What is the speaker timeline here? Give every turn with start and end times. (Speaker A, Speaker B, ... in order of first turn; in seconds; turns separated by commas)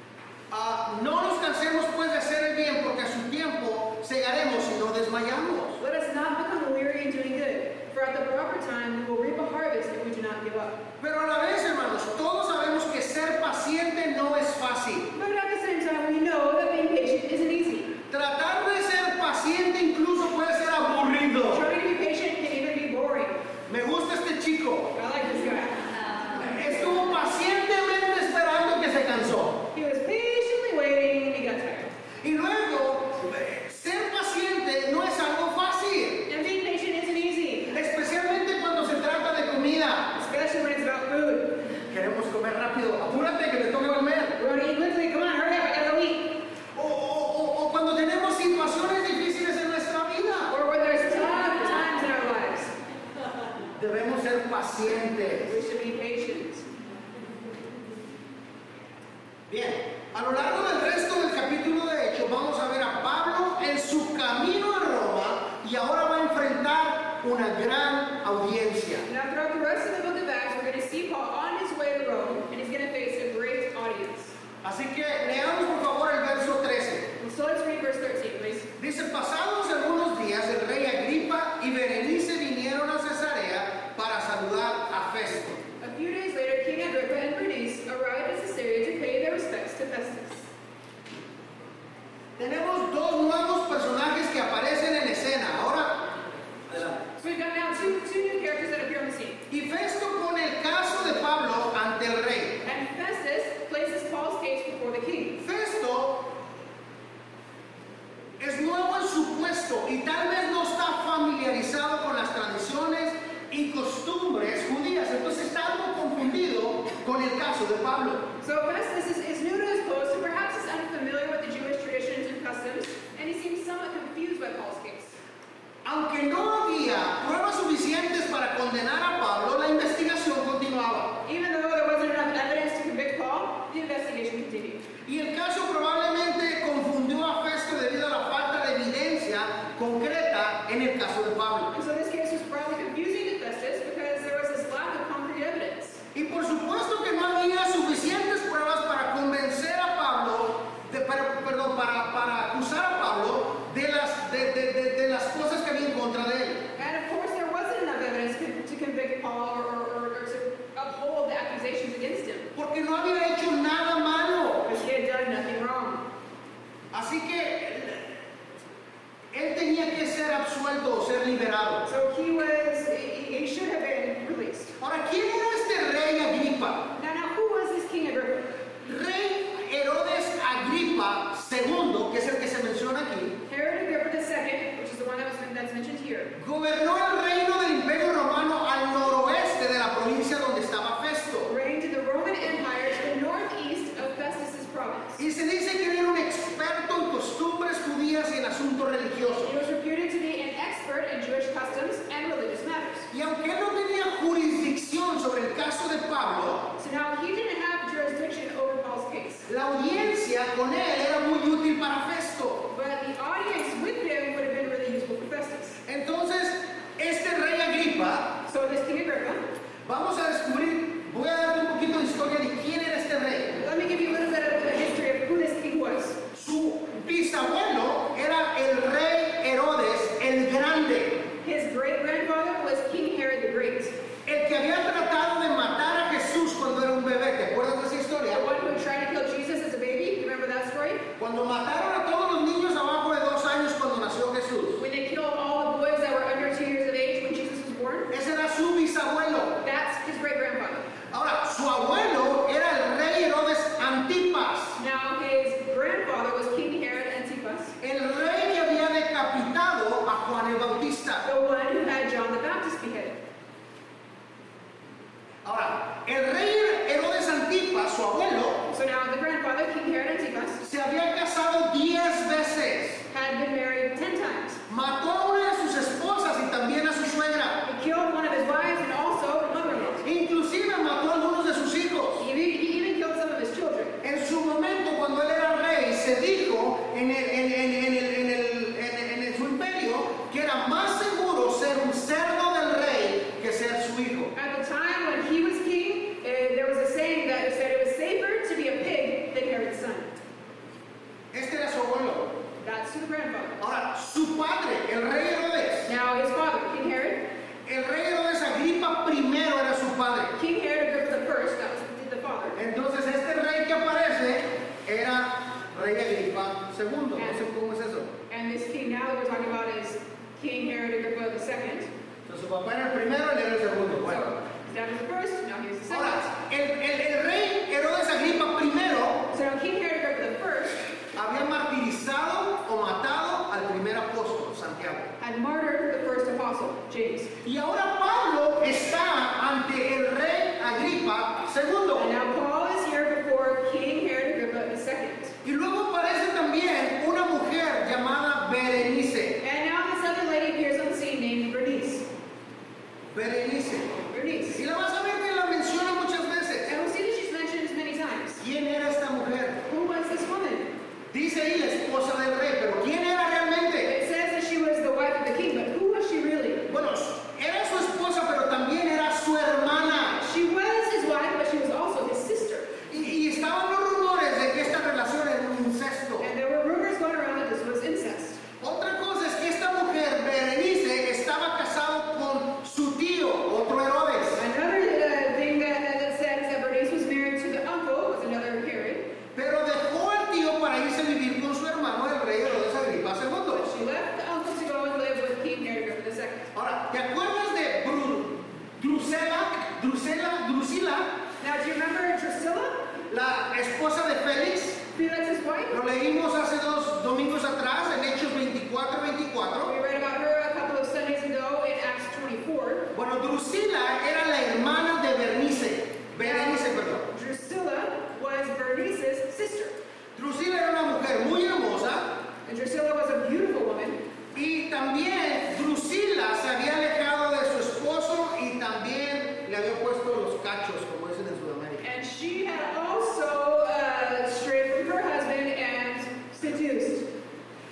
Speaker A: 0.5-5.8, Speaker B: 5.8-10.8, Speaker A: 11.0-15.1, Speaker B: 15.1-17.9, Speaker A: 18.1-21.6, Speaker B: 21.5-23.4, Speaker A: 23.7-24.9, Speaker B: 24.9-25.8, Speaker A: 26.3-29.6, Speaker B: 29.7-31.9, Speaker A: 32.2-36.3, Speaker B: 36.3-37.7, Speaker A: 37.7-40.1, Speaker B: 40.1-41.6, Speaker A: 41.9-44.4, Speaker B: 44.4-46.4, Speaker A: 46.8-50.5, Speaker B: 50.5-52.7, Speaker A: 53.8-55.5, Speaker B: 55.5-56.7, Speaker A: 59.5-69.0, Speaker B: 69.0-74.3, Speaker A: 74.6-77.1, Speaker B: 77.2-78.7, Speaker A: 78.8-85.6, Speaker B: 85.8-90.5, Speaker A: 92.4-96.1, Speaker A: 96.7-97.0, Speaker B: 97.2-99.4, Speaker A: 99.5-102.6, Speaker B: 102.6-105.4, Speaker A: 105.4-106.4, Speaker A: 108.4-118.3, Speaker B: 118.4-125.1, Speaker A: 125.8-131.2, Speaker B: 131.2-134.8, Speaker A: 135.1-141.7, Speaker B: 141.7-146.0, Speaker A: 146.1-156.6, Speaker B: 156.8-162.5, Speaker A: 162.6-164.7, Speaker B: 164.7-166.0, Speaker A: 166.9-168.1, Speaker A: 169.3-171.8, Speaker B: 171.9-174.8, Speaker A: 174.8-176.9, Speaker B: 176.9-178.6, Speaker A: 178.8-183.4, Speaker B: 183.5-186.3, Speaker A: 186.4-191.5, Speaker B: 191.5-195.2, Speaker A: 195.2-199.5, Speaker B: 199.4-203.1, Speaker A: 203.1-206.7, Speaker B: 206.8-209.5, Speaker A: 209.5-212.7, Speaker B: 212.7-215.8, Speaker A: 215.9-218.4, Speaker B: 218.5-219.4, Speaker A: 219.9-223.6, Speaker B: 223.6-226.2, Speaker A: 226.3-231.3, Speaker B: 231.4-233.9, Speaker A: 234.2-238.5, Speaker B: 238.3-241.1, Speaker A: 241.2-244.8, Speaker B: 244.8-248.1, Speaker A: 248.1-249.6, Speaker B: 249.6-250.9, Speaker A: 251.1-254.8, Speaker B: 254.8-257.8, Speaker A: 257.8-261.3, Speaker B: 261.2-263.2, Speaker A: 265.4-268.7, Speaker B: 268.7-270.6, Speaker A: 270.6-273.0, Speaker B: 273.1-274.6, Speaker A: 274.7-277.6, Speaker B: 277.6-280.1, Speaker A: 280.0-282.2, Speaker B: 282.2-283.9, Speaker A: 284.0-294.3, Speaker B: 294.3-300.2, Speaker A: 301.3-302.3, Speaker B: 302.6-303.6, Speaker A: 303.6-305.9, Speaker B: 305.9-307.3, Speaker A: 307.7-310.4, Speaker B: 310.3-312.6, Speaker A: 312.6-318.1, Speaker B: 318.3-321.9, Speaker A: 322.3-324.4, Speaker B: 324.1-326.3, Speaker A: 325.9-329.3, Speaker B: 329.3-330.8, Speaker A: 331.1-335.1, Speaker B: 335.2-337.3, Speaker A: 337.4-342.1, Speaker B: 342.0-345.4, Speaker A: 345.4-349.4, Speaker B: 349.4-352.1, Speaker A: 353.1-356.7, Speaker B: 354.0-354.6, Speaker B: 356.7-358.4, Speaker A: 358.4-359.6, Speaker B: 359.7-360.7, Speaker A: 361.1-363.9, Speaker B: 363.9-366.7, Speaker A: 366.7-370.2, Speaker B: 370.2-372.8, Speaker A: 372.9-376.3, Speaker B: 376.2-378.4, Speaker A: 378.6-384.4, Speaker B: 384.4-389.1, Speaker A: 389.4-393.7, Speaker B: 393.5-396.5, Speaker A: 396.5-401.2, Speaker B: 401.4-402.9, Speaker A: 403.1-404.8, Speaker B: 404.9-405.8, Speaker A: 405.7-409.7, Speaker B: 409.6-412.9, Speaker A: 412.9-417.1, Speaker B: 417.1-419.8, Speaker A: 420.1-422.1, Speaker B: 422.5-424.0, Speaker A: 424.4-431.8, Speaker B: 431.8-437.1